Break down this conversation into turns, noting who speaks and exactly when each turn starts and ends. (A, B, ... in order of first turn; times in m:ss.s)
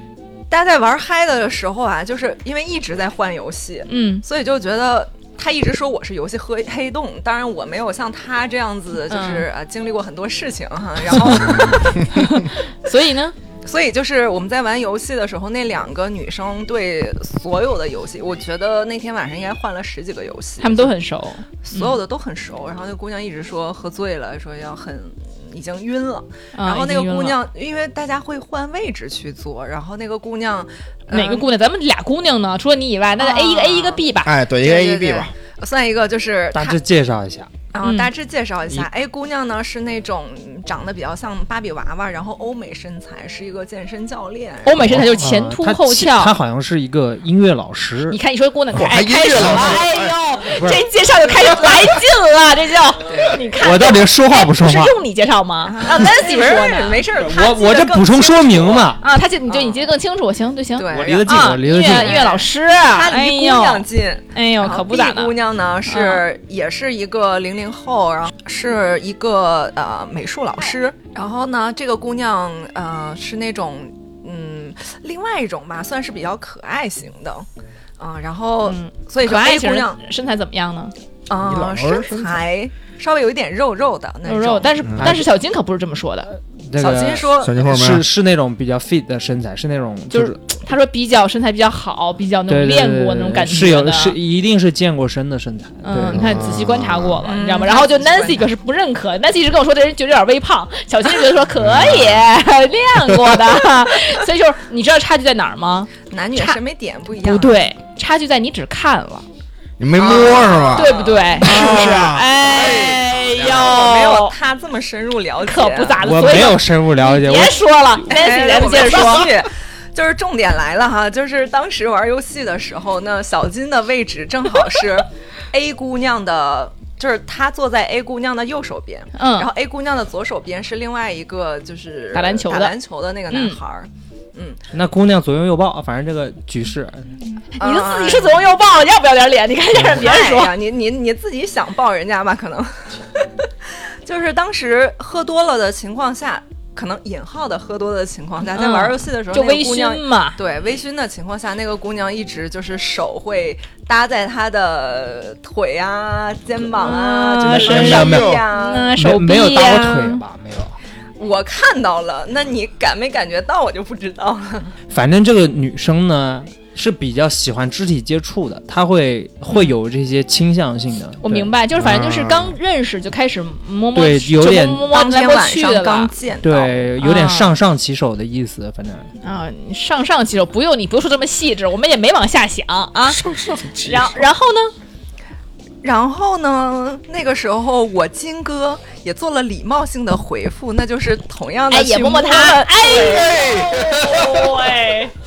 0:00.5-0:12.4 A
0:03.9-0:04.2 B
0:09.1-0:09.5 B
0:11.4-0:13.3 B
0:13.6-0:20.9 A
0:20.6-0:22.0 B
0:21.6-0:31.5 A
0:26.5-0:27.4 B
0:31.1-0:34.3 B
0:33.2-0:34.0 A
0:34.2-0:35.3 C
0:34.6-0:36.8 A
0:36.5-0:37.5 D
0:37.7-0:45.1 A
0:37.8-0:38.1 B
0:44.6-0:46.3 B
0:45.0-0:48.2 D
0:48.1-0:57.0 B
0:48.7-0:50.1 C
0:53.1-0:53.4 A
0:53.6-0:55.0 D
0:55.6-0:58.9 A
0:57.2-0:59.0 D
0:59.0-1:05.3 B
0:59.5-0:59.8 A
1:00.8-1:17.4 A
1:00.9-1:02.2 D
1:05.9-1:06.2 B
1:18.0-1:20.0 A
1:18.6-1:20.9 B
1:21.3-1:24.7 A
1:21.4-1:22.4 C
1:24.2-1:26.4 B
1:24.8-1:25.1 C
1:26.7-1:30.6 D
1:26.8-1:27.6 A
1:27.4-1:28.0 C
1:30.1-1:34.2 B
1:32.5-1:36.3 D
1:35.8-1:46.6 B
1:36.1-1:37.2 C
1:37.2-1:38.5 A
1:41.6-1:42.2 C
1:46.1-1:47.6 A
1:47.2-1:49.2 B
1:49.8-1:53.6 C
1:50.0-1:52.0 A
1:50.7-1:54.4 B
1:53.4-1:56.6 A
1:55.4-1:59.3 B
1:56.0-1:57.7 D
1:58.0-2:14.6 A
2:09.1-2:09.5 B
2:12.1-2:12.8 B
2:13.3-2:13.6 B
2:14.7-2:17.1 D
2:17.5-2:20.5 B
2:17.6-2:18.4 A
2:19.8-2:38.9 A
2:28.5-2:30.4 B
2:36.8-2:40.2 B
2:37.4-2:38.4 C
2:37.5-2:38.3 D
2:39.0-2:40.8 D
2:41.2-2:44.8 A
2:44.9-2:51.5 D
2:51.2-2:56.1 B
2:51.7-2:52.6 C
2:53.9-2:54.8 D
2:54.8-2:56.7 A
2:56.4-2:59.1 D
2:57.0-2:57.5 B
2:59.2-3:03.2 B
3:03.0-3:04.2 C
3:03.8-3:04.7 B
3:05.8-3:13.2 A
3:11.7-3:15.1 B
3:12.8-3:14.6 C